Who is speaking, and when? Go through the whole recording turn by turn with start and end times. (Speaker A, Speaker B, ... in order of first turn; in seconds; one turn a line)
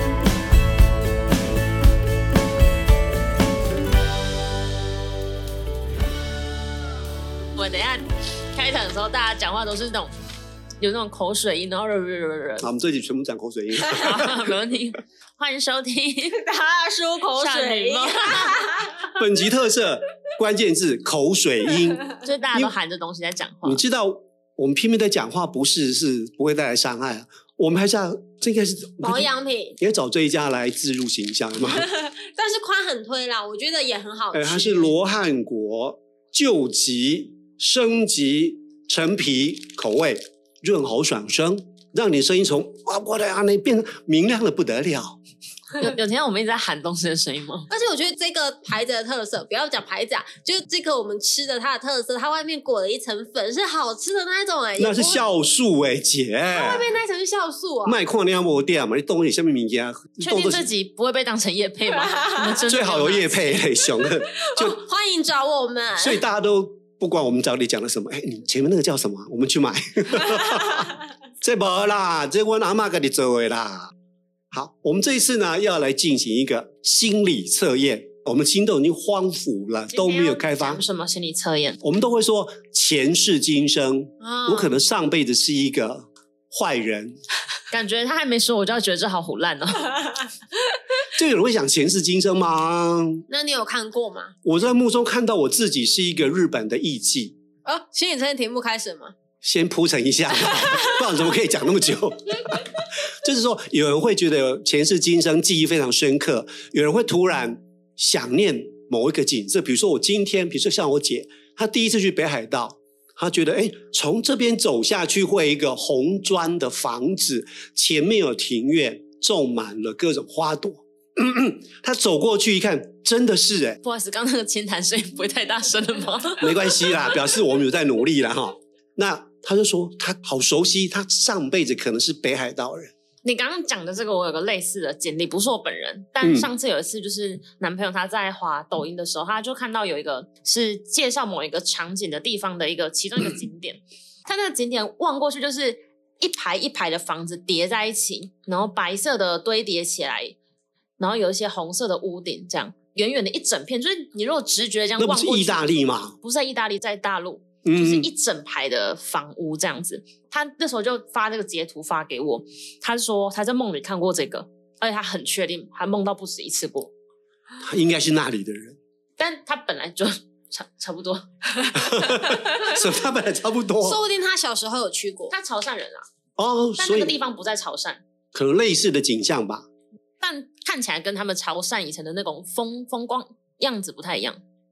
Speaker A: 7.5-10.1
Speaker A: 10.8-12.7
Speaker B: 12.6-14.5
Speaker A: 14.0-16.4
Speaker C: 16.3-19.0
Speaker A: 17.3-19.1
Speaker B: 19.2-22.7
Speaker A: 22.1-23.8
Speaker B: 23.6-31.9
Speaker C: 29.0-29.8
Speaker C: 31.8-34.9
Speaker B: 34.3-45.2
Speaker A: 45.8-47.7
Speaker C: 47.7-55.3
Speaker B: 54.8-56.9
Speaker C: 56.5-58.0
Speaker B: 57.9-60.7
Speaker A: 60.2-63.7
Speaker C: 62.0-62.6
Speaker B: 62.7-64.8
Speaker C: 64.0-66.2
Speaker B: 66.0-70.9
Speaker B: 71.4-73.9
Speaker B: 74.5-80.8
Speaker A: 79.9-81.8
Speaker B: 81.8-87.2
Speaker C: 84.2-84.7
Speaker A: 87.7-90.2
Speaker B: 91.2-93.2
Speaker C: 93.3-94.3
Speaker B: 94.4-97.4
Speaker C: 97.7-99.1
Speaker B: 99.4-123.8
Speaker A: 123.8-127.0
Speaker B: 126.4-132.9
Speaker A: 133.2-150.3
Speaker B: 136.2-136.5
Speaker A: 151.0-155.7
Speaker B: 155.0-156.2
Speaker A: 156.2-166.9
Speaker B: 157.7-158.1
Speaker B: 167.6-168.8
Speaker A: 169.2-172.7
Speaker B: 171.7-174.0
Speaker C: 172.3-172.6
Speaker C: 173.8-175.3
Speaker A: 175.3-176.0
Speaker B: 176.4-177.2
Speaker A: 176.8-178.0
Speaker B: 178.3-179.7
Speaker A: 180.2-184.4